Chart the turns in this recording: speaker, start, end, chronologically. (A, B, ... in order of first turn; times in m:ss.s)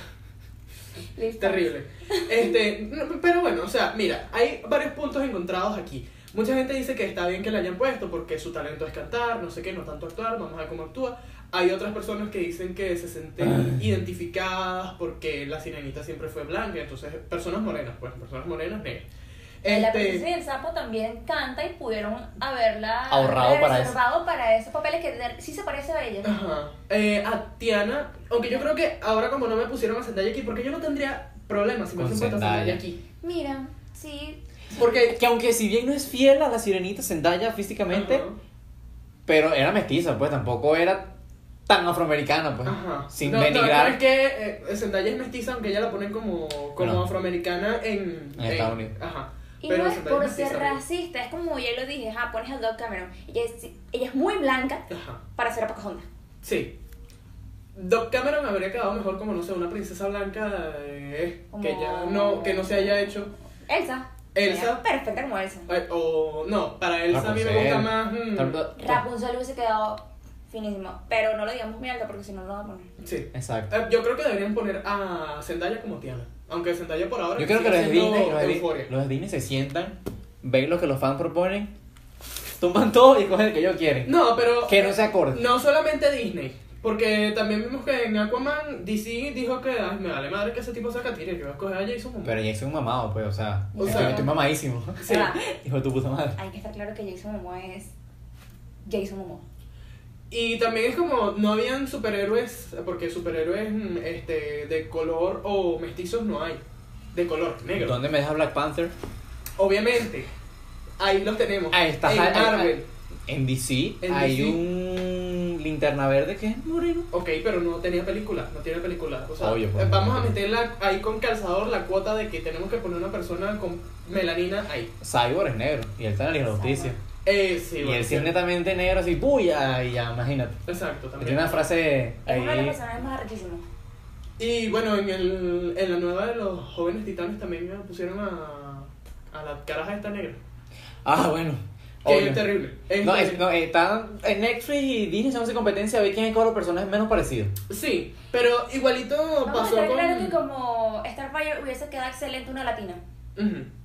0:01.2-0:02.5 A
0:01.4-0:19.1 B
0:19.6-0:20.2 B
0:19.7-0:26.3 A
0:23.1-0:24.0 C
0:26.2-0:33.0 B
0:32.0-0:32.8 C
0:33.2-0:34.4 A
0:34.8-0:35.2 B
0:34.8-0:38.3 C
0:37.9-0:38.4 B
0:39.3-0:41.1 C
0:41.7-0:44.0 C
0:42.6-0:50.8 B
0:46.8-0:47.1 C
0:48.4-0:48.9 C
0:49.6-0:56.1 A
0:54.9-0:55.2 B
0:56.4-0:56.8 B
0:57.8-1:03.3 B
1:01.5-1:03.1 A
1:03.7-1:05.7 A
1:04.3-1:04.8 B
1:05.7-1:08.6 B
1:07.1-1:09.0 C
1:08.8-1:12.9 A
1:13.0-1:18.9 B
1:13.3-1:13.7 C
1:17.4-1:21.7 C
1:22.6-1:25.5 C
1:24.0-1:32.4 B
1:32.2-1:36.4 C
1:33.7-1:34.3 A
1:33.8-1:34.2 B
1:35.0-1:35.5 A
1:35.0-1:35.3 B
1:36.4-1:37.9 A
1:38.8-1:39.4 A
1:40.3-1:46.6 B
1:47.1-1:48.0 B
1:47.8-1:48.9 C
1:49.6-1:50.3 B
1:51.0-1:52.9 B
1:51.7-1:52.8 C
1:53.3-1:57.1 C
1:54.0-1:54.6 B
1:57.1-2:04.9 B
1:59.4-2:00.3 C
2:05.0-2:07.0 C
2:06.6-2:07.0 A
2:07.2-2:08.3 B
2:07.8-2:10.6 C
2:10.7-2:11.7 B
2:11.2-2:12.8 C
2:12.2-2:13.7 A
2:14.4-2:20.4 B
2:21.0-2:22.5 C
2:22.0-2:23.4 B
2:23.0-2:27.5 C
2:27.7-2:30.4 B
2:29.5-2:33.0 A
2:33.4-2:33.7 B